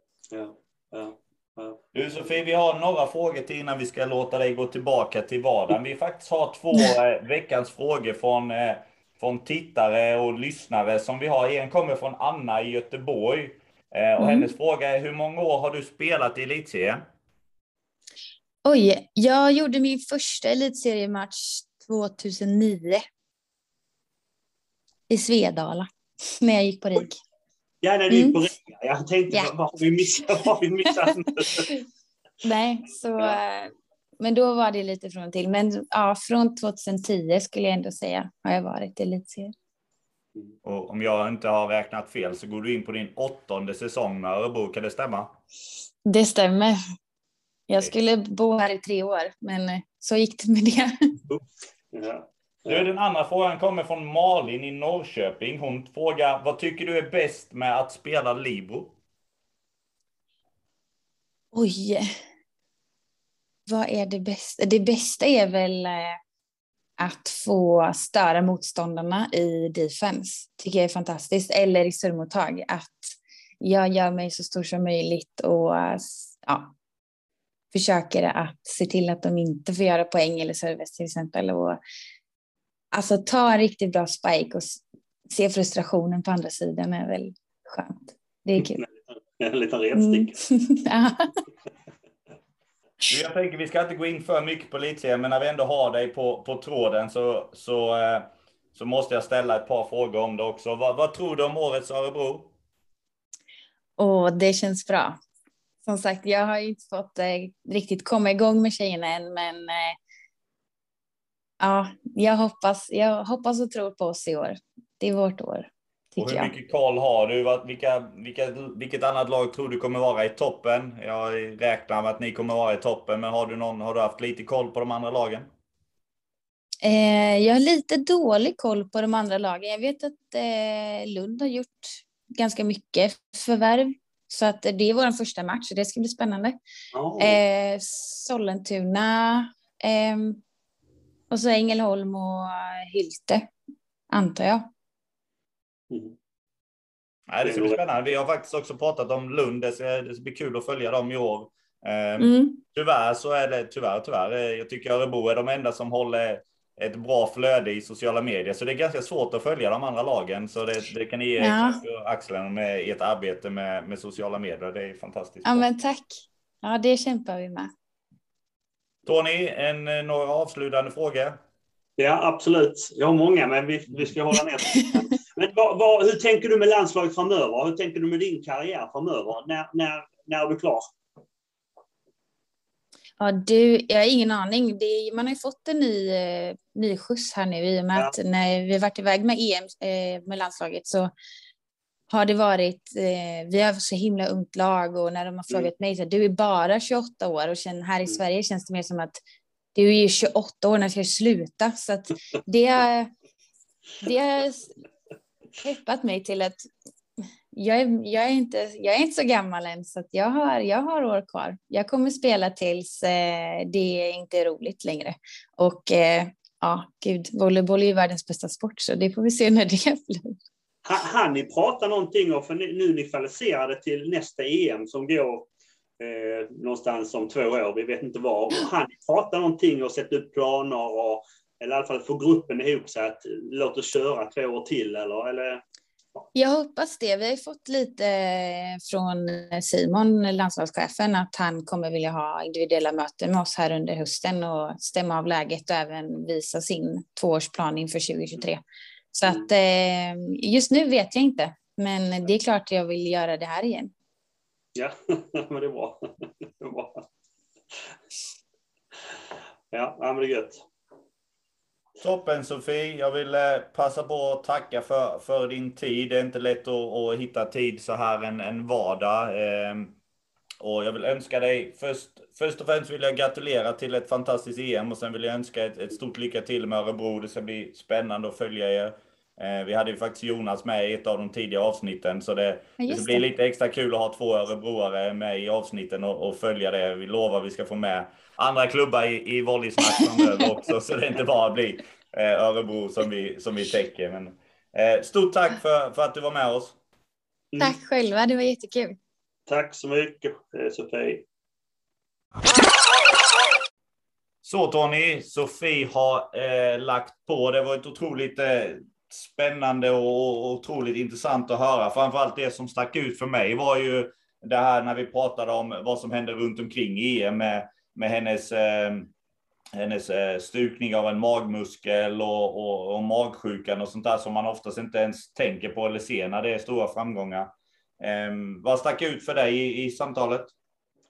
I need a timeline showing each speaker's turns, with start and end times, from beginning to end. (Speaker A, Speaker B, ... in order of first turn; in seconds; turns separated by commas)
Speaker A: 0.3-1.8, Speaker B: 1.9-17.0, Speaker C: 14.2-14.5, Speaker C: 18.6-23.0, Speaker C: 25.1-25.9, Speaker C: 26.4-27.2, Speaker A: 27.8-31.7, Speaker C: 28.1-28.4, Speaker C: 31.5-31.8, Speaker C: 32.4-39.5, Speaker B: 40.6-45.3, Speaker C: 46.1-46.8, Speaker C: 47.7-50.9, Speaker A: 51.3-52.9, Speaker B: 52.7-59.0, Speaker C: 61.5-62.1, Speaker C: 63.7-66.2, Speaker C: 67.0-76.7, Speaker C: 77.7-81.8, Speaker C: 82.9-88.8, Speaker A: 88.6-90.3, Speaker C: 89.9-91.3, Speaker B: 93.1-102.5, Speaker C: 104.0-105.2, Speaker C: 105.8-110.0, Speaker C: 111.6-116.5, Speaker B: 116.2-125.5, Speaker C: 126.8-136.6, Speaker A: 136.9-137.4, Speaker C: 137.2-140.4, Speaker C: 141.3-143.5, Speaker C: 144.1-144.7, Speaker A: 145.9-146.2, Speaker B: 147.3-165.7, Speaker A: 147.4-147.8, Speaker C: 152.2-152.6, Speaker C: 161.4-161.8, Speaker C: 165.4-167.7, Speaker B: 169.1-171.4, Speaker A: 172.0-180.9, Speaker C: 183.2-191.1, Speaker C: 192.1-199.2, Speaker C: 199.8-203.1, Speaker C: 204.0-204.8, Speaker C: 205.6-206.7, Speaker C: 207.5-220.4, Speaker A: 220.8-225.5, Speaker A: 226.0-235.6, Speaker C: 236.3-248.6, Speaker C: 249.1-253.9, Speaker A: 254.8-257.0, Speaker A: 259.7-260.6, Speaker B: 262.0-269.9, Speaker B: 270.6-296.8, Speaker C: 282.8-283.2, Speaker C: 289.9-290.4, Speaker C: 297.6-299.0, Speaker A: 299.5-301.2, Speaker B: 304.4-319.1, Speaker B: 319.7-330.5